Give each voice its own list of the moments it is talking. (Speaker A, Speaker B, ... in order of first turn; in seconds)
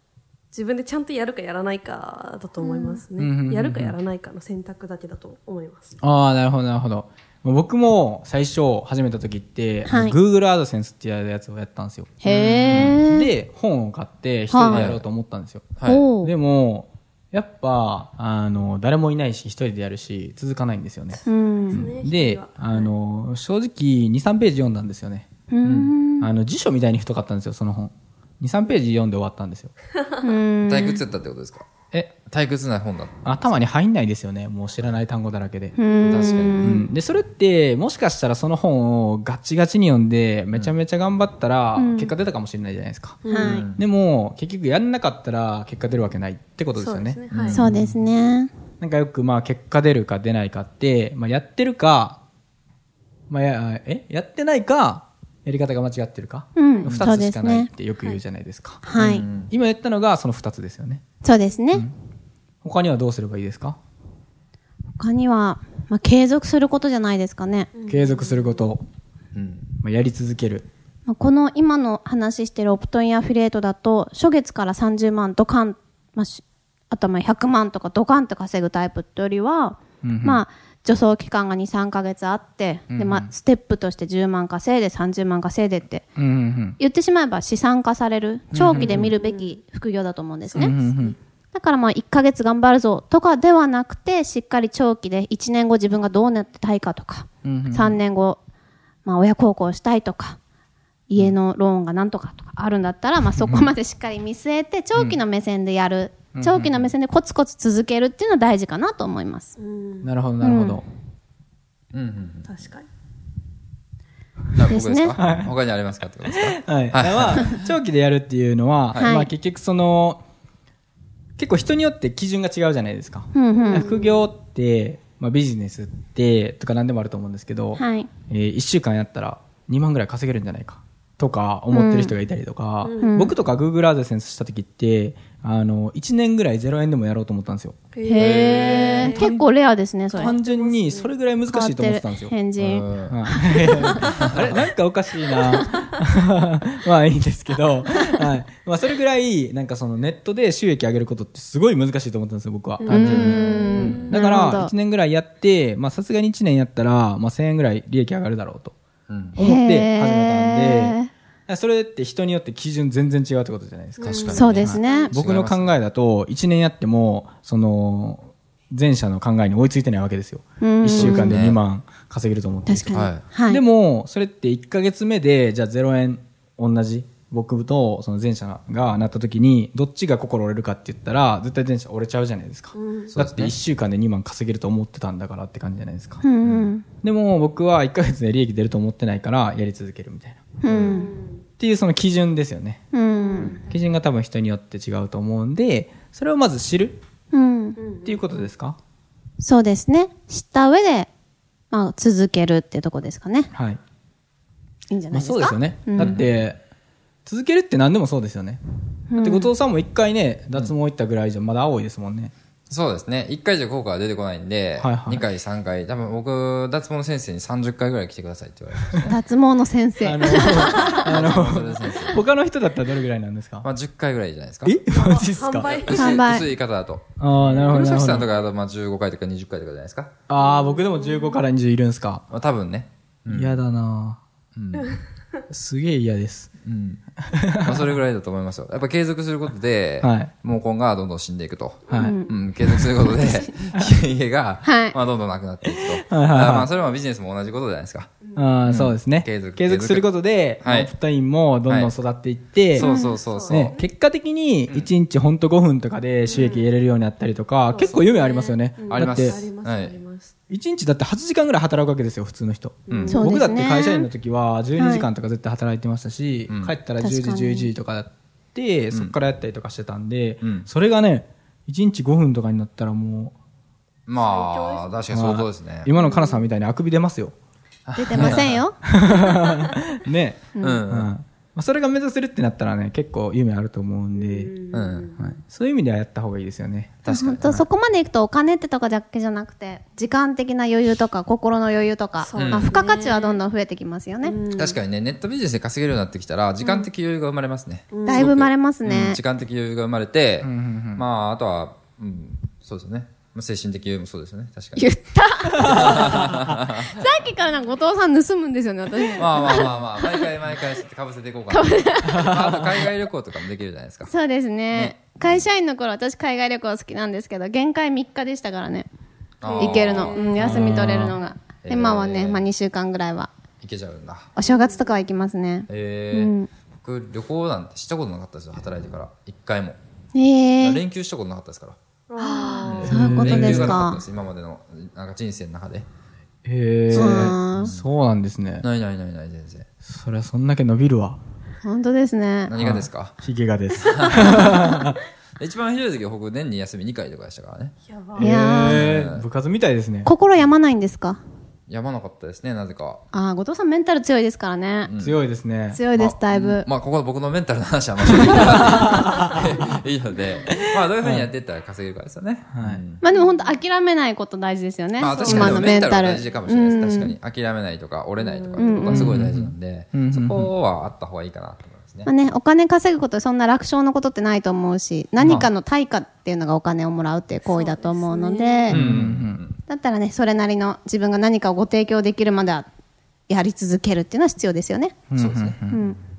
Speaker A: 0.5-6.0, 21.6-22.9, 43.2-43.6, 46.8-47.6, 56.8-57.1, 67.7-68.6, 89.1-89.5, 90.5-91.2, 109.6-110.1, 112.5-112.8, 123.6-124.2, 132.8-133.2, 137.9-139.3, 140.1-141.1, 143.8-144.1, 152.8-154.2, 164.0-165.2, 182.7-183.1, 190.7-191.4, 193.1-193.7, 197.8-198.5, 220.6-221.0, 224.9-226.3, 230.4-231.4, 234.7-235.0, 252.8-253.9, 256.3-256.7, 257.7-260.3, 262.9-263.2, 274.1-275.0, 276.0-276.4, 284.2-285.2, 292.2-293.4, 294.2-294.8, 296.6-296.9, 297.9-298.3, 319.4-320.5, 324.4-324.8, 332.1-332.9, 347.9-348.3, 363.1-363.5, 365.0-365.6, 368.2-369.0, 377.4-378.7
Speaker B: 2.6-3.0, 9.8-10.2, 12.2-13.3, 14.5-14.9, 15.8-16.3, 21.2-21.9, 25.5-26.3, 30.2-31.0, 35.8-36.9, 41.8-42.1, 43.3-43.6, 47.5-48.5, 56.5-57.7, 58.8-59.2, 61.2-61.9, 65.0-67.7, 71.1-86.1, 86.8-90.8, 91.5-98.4, 99.0-100.4, 101.1-109.5, 110.4-110.8, 114.7-115.2, 119.0-119.3, 123.3-123.9, 127.7-128.1, 131.7-132.2, 133.0-133.3, 138.0-140.4, 141.5-144.0, 152.9-154.7, 159.4-161.1, 164.3-165.1, 170.6-171.4, 172.7-173.6, 186.2-186.8, 190.6-191.1, 192.9-193.6, 197.3-197.8, 199.4-201.1, 201.7-203.5, 204.9-206.2, 209.1-209.5, 219.0-221.0, 225.9-226.5, 241.9-242.3, 243.1-243.6, 244.6-244.9, 252.8-253.2, 263.1-264.1, 264.8-265.1, 267.0-267.7, 277.9-278.8, 280.6-280.9, 287.1-294.4, 298.0-299.2, 304.8-306.1, 306.9-310.3, 311.5-312.3, 314.1-318.9, 319.5-323.3, 324.4-326.5, 330.1-330.8, 332.2-334.0, 336.9-337.7, 341.6-342.5, 348.2-348.8, 350.0-351.2, 353.1-354.9, 355.7-356.7, 363.0-367.1, 368.6-369.1, 372.1-378.8, 379.7-382.7, 383.3-385.0, 385.7-386.0
Speaker C: 3.2-4.0, 6.0-25.3, 26.2-29.7, 33.2-35.8, 36.6-48.0, 48.8-52.2, 53.3-61.0, 62.6-63.8, 67.9-68.8, 69.8-70.7, 80.0-80.4, 82.9-83.3, 86.2-86.8, 88.5-89.1, 90.5-91.1, 97.4-98.0, 103.4-103.7, 106.3-106.9, 110.0-110.8, 115.1-115.5, 116.3-120.2, 121.4-137.8, 139.0-139.5, 140.1-142.3, 143.1-158.8, 159.3-190.9, 191.6-192.8, 193.7-197.0, 198.0-198.8, 203.5-203.8, 205.1-206.6, 207.2-208.6, 209.2-212.3, 214.8-215.2, 220.0-223.7, 224.6-225.8, 227.2-228.3, 230.3-232.2, 233.3-234.2, 235.5-236.5, 237.2-237.9, 240.0-240.3, 241.9-242.2, 245.8-246.7, 248.3-252.9, 253.4-259.4, 260.5-273.3, 275.1-277.3, 278.1-284.5, 285.2-287.1, 300.4-301.0, 305.6-306.5, 312.1-312.7, 320.4-321.2, 332.8-333.9, 336.4-338.6, 339.8-341.2, 342.6-345.0, 348.1-350.1, 355.0-355.8, 358.1-359.4, 360.6-361.3, 362.5-362.8, 368.9-370.5, 378.7-379.4, 385.1-385.8
Speaker D: 12.2-12.9, 14.7-15.0, 15.8-16.1, 25.6-25.9, 30.6-31.6, 32.2-33.6, 36.0-36.8, 43.4-43.8, 47.3-47.6, 58.9-59.5, 69.3-69.7, 104.9-105.2, 111.9-112.5, 114.5-117.7, 138.2-139.0, 142.6-143.2, 153.1-153.5, 159.1-159.4, 164.0-165.8, 170.9-171.6, 172.9-173.2, 183.1-183.5, 206.0-206.3, 212.7-219.1, 220.6-222.2, 223.6-224.8, 225.7-230.1, 232.3-233.6, 234.6-235.0, 236.6-237.0, 237.6-248.1, 248.7-250.9, 251.7-251.9, 252.7-253.8, 258.9-260.0, 262.9-263.2, 266.5-266.7, 270.4-270.7, 274.1-275.9, 277.9-278.6, 280.6-281.1, 284.7-285.1, 287.0-287.6, 292.3-292.7, 294.5-304.9, 305.6-306.9, 309.1-314.1, 314.7-315.5, 319.4-321.0, 321.6-322.5, 323.6-324.3, 325.7-329.8, 330.6-331.8, 332.6-335.9, 336.9-337.9, 338.6-339.6, 342.5-343.1, 343.8-344.7, 345.4-347.7, 348.6-349.2, 351.7-353.0, 354.8-355.2, 355.9-363.0, 365.0-372.1, 375.2-375.5, 378.7-379.6, 385.1-385.6